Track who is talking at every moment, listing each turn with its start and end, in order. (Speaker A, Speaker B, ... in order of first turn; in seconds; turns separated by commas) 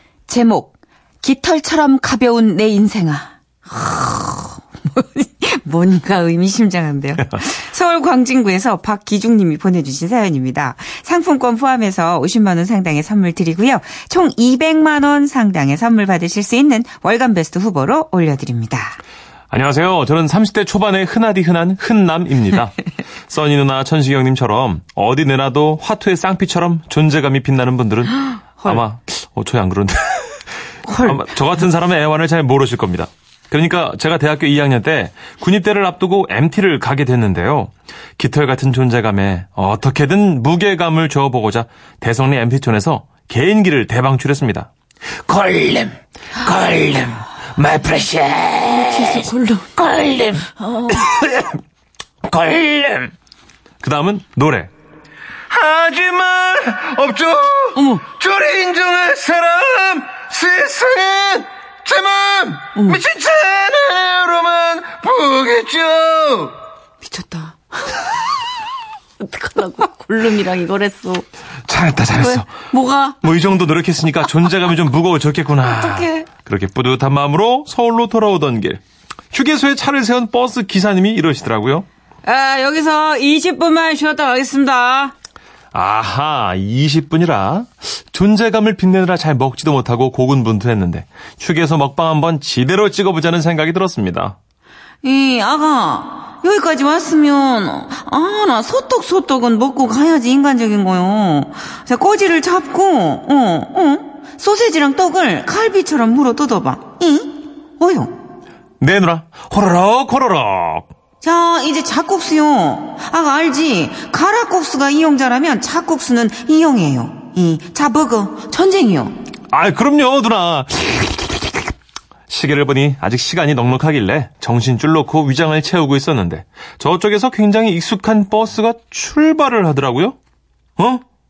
Speaker A: 0.3-19.0, Speaker B: 19.5-22.8, Speaker B: 23.3-44.7, Speaker A: 30.9-31.2, Speaker B: 45.2-51.6, Speaker A: 48.8-49.8, Speaker A: 50.6-51.0, Speaker B: 52.2-53.1, Speaker B: 53.8-54.7, Speaker B: 55.5-66.5, Speaker A: 57.7-58.0, Speaker A: 62.8-63.0, Speaker A: 67.0-68.1, Speaker A: 69.2-71.2, Speaker B: 71.7-72.5, Speaker A: 72.1-73.2, Speaker B: 73.2-78.8, Speaker A: 75.6-76.3, Speaker B: 79.3-81.9, Speaker A: 82.2-85.1, Speaker B: 85.7-94.3, Speaker A: 95.0-108.1, Speaker B: 108.8-110.9, Speaker A: 111.2-119.1, Speaker B: 119.5-121.7, Speaker B: 122.3-130.2, Speaker B: 130.8-131.0